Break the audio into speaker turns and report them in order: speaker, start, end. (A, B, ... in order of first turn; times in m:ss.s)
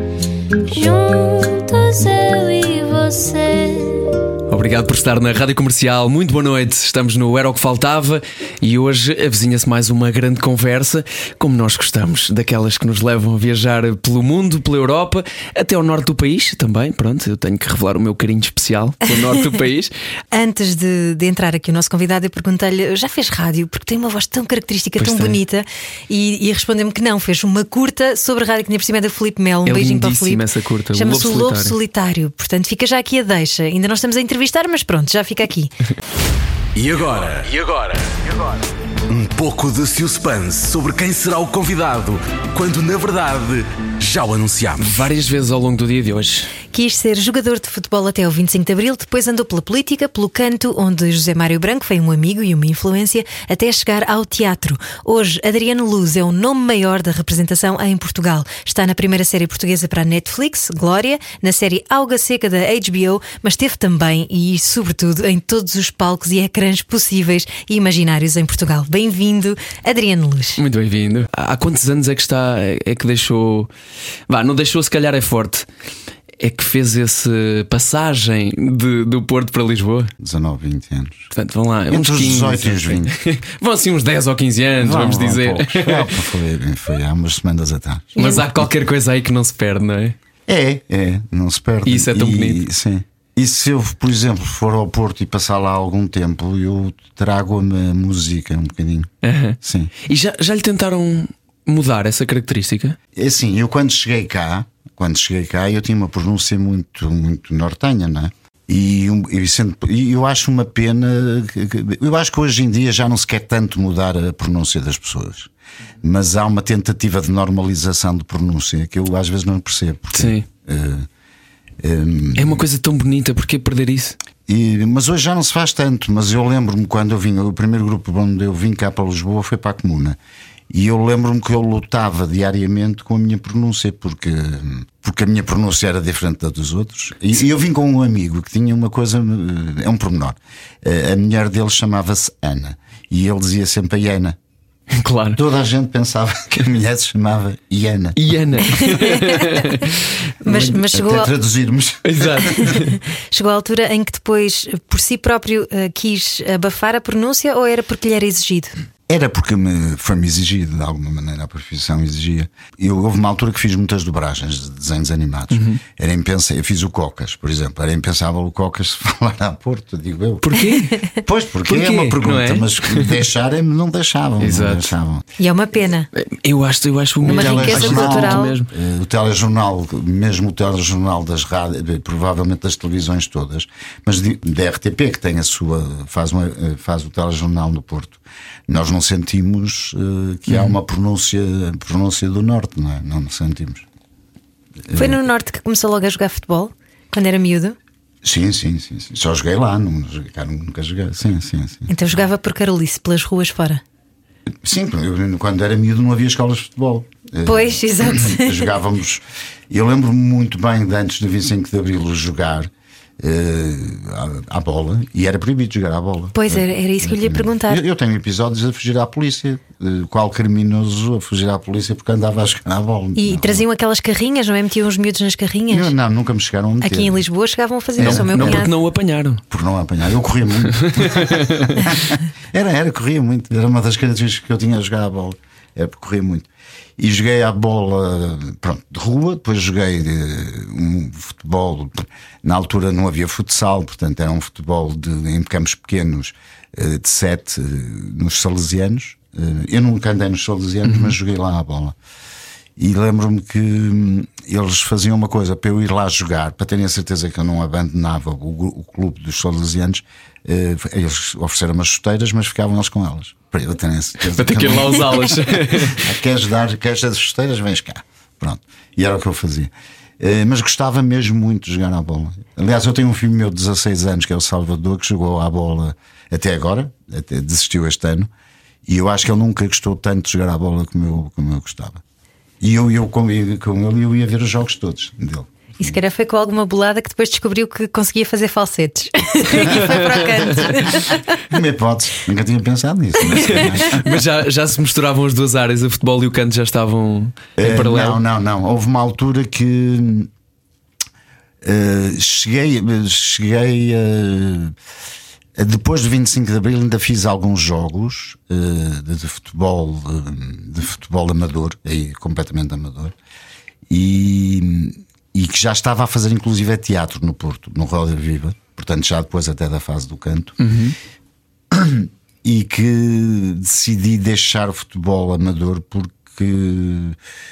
0:00.7-0:04.1 A
0:04.5-0:19.9 B
0:19.2-0:19.4 C
0:20.3-0:30.4 C
0:25.0-0:25.4 B
0:29.7-0:31.8 B
0:31.0-0:35.7 C
0:36.8-0:38.5 D
0:39.1-0:45.1 D
0:44.8-0:46.5 B
0:46.7-1:10.6 C
1:10.6-1:13.7 B
1:14.3-1:15.7 B
1:16.4-1:20.1 B
1:20.2-1:21.3 E
1:21.3-1:26.2 B
1:21.9-1:23.1 E
1:24.8-1:28.7 E
1:28.2-1:28.5 C
1:28.2-1:30.2 B
1:30.5-1:39.1 E
1:31.8-1:32.6 B
1:39.2-1:43.0 B
1:39.6-1:39.9 E
1:43.2-1:55.5 E
1:56.0-2:01.1 E
2:00.1-2:00.5 B
2:01.8-2:02.6 E
2:02.4-2:04.2 B
2:04.5-2:10.2 E
2:10.7-2:24.4 E
2:24.9-2:25.4 B
2:25.4-2:28.4 E
2:28.2-2:29.9 B
2:28.7-2:29.6 C
2:30.4-2:31.3 C
2:30.4-2:32.8 E
2:32.0-2:33.0 B
2:32.6-2:38.8 C
2:39.1-2:50.5 E
2:45.5-2:45.8 B
2:50.4-2:50.9 B
2:51.1-2:55.2 E
2:51.7-2:53.2 B
2:54.4-2:54.9 B
2:55.4-2:56.1 C
2:56.1-2:58.7 B
2:57.2-3:13.8 E
2:57.2-2:58.6 C
3:10.5-3:10.8 B
3:14.9-3:15.2 E
3:14.9-3:17.8 C
3:18.2-3:21.9 E
3:21.9-3:23.8 C
3:24.6-3:43.6 E
3:27.5-3:28.8 C
3:36.3-3:37.8 C
3:43.2-3:45.9 C
3:45.7-3:47.2 E
3:46.8-3:48.7 C
3:48.0-3:48.7 E
3:48.0-3:49.4 B
3:49.5-4:12.0 E
3:50.7-3:51.8 B
4:10.8-4:11.2 B
4:12.8-4:38.3 E
4:24.4-4:26.1 B
4:38.9-4:42.0 E
4:42.6-4:46.0 E
4:45.8-4:51.2 C
4:49.7-4:54.2 E
4:50.6-4:50.8 B
4:53.3-4:58.2 B
4:57.6-5:00.3 E
5:01.6-5:04.8 E
5:05.6-5:13.2 E
5:13.9-5:20.6 E
5:20.6-5:21.0 B
5:21.7-5:27.2 E